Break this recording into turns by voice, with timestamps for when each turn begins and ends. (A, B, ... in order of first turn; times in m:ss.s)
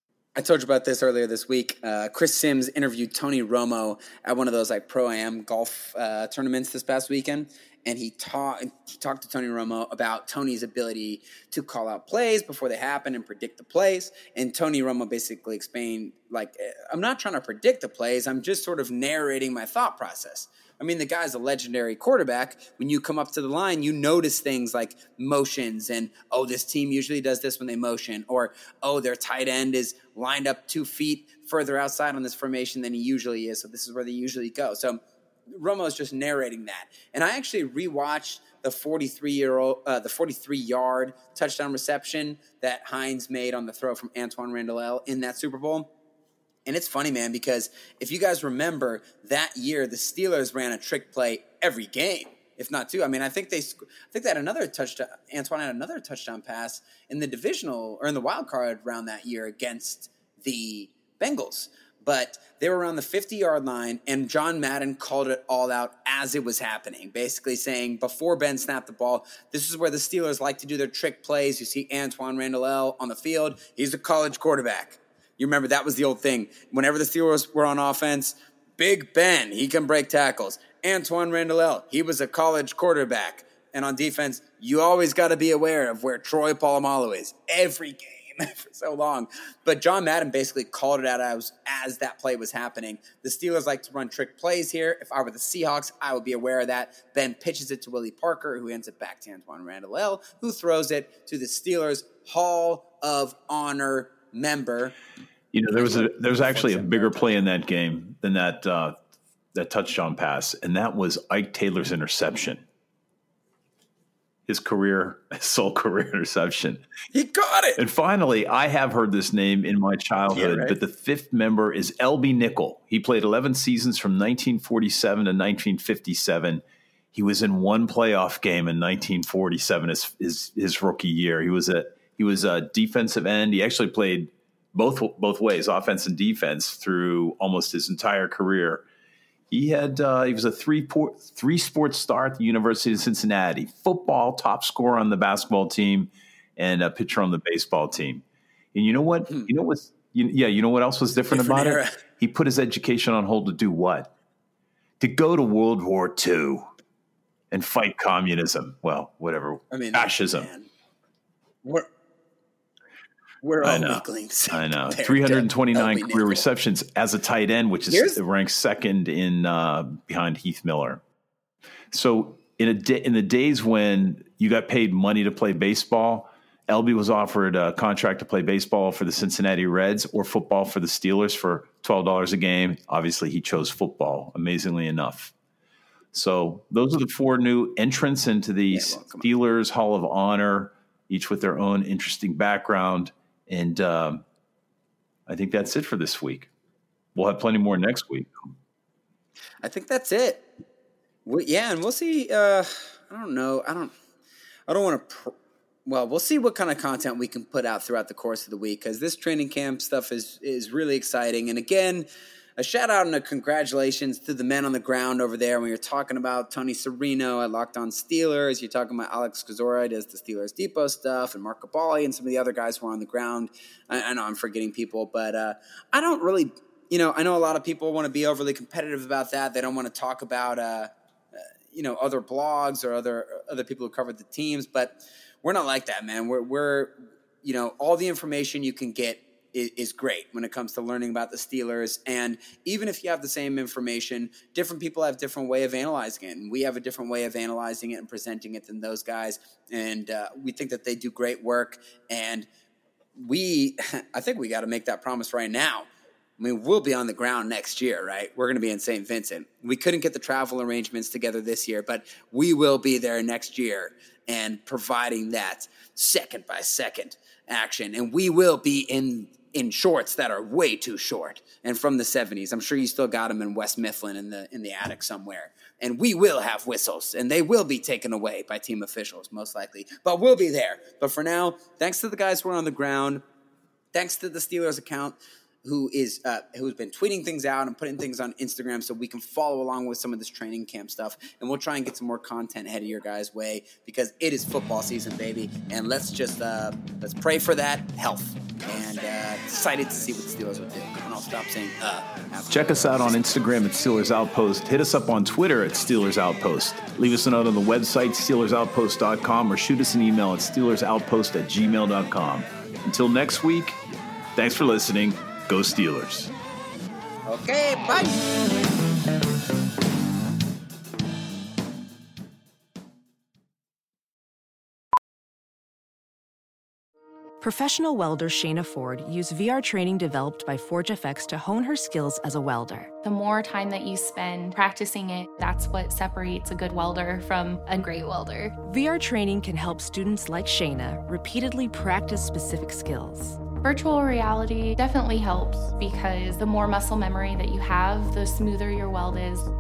0:00.4-0:45.9 A
0:46.7-1:44.9 A
1:45.5-1:49.0 B
1:45.7-1:47.5 A
1:49.5-1:52.6 B
1:54.5-1:56.8 B
1:57.1-1:57.8 A
1:57.8-2:18.8 B
2:00.3-2:00.8 A
2:19.5-2:34.1 B
2:31.3-2:32.0 A
2:35.0-2:36.7 B
2:37.5-2:40.5 B
2:39.7-2:40.7 A
2:43.4-2:46.5 A
2:43.6-2:51.0 B
2:47.9-2:48.2 A
2:51.9-3:05.3 B
3:06.1-3:14.2 B
3:08.7-3:09.3 A
3:15.3-3:16.5 B
3:17.2-3:18.5 B
3:19.6-3:20.5 A
3:21.2-3:24.0 A
3:24.7-3:25.3 A
3:25.9-3:32.1 A
3:32.6-4:12.5 A
4:13.2-4:15.9 A
4:16.4-4:43.2 A
4:43.9-5:03.4 A
5:02.5-5:13.8 B
5:14.4-5:16.3 B
5:17.3-5:18.2 A
5:27.4-5:32.9 C
5:33.0-5:38.6 D
5:38.6-5:43.4 C
5:43.6-5:49.5 D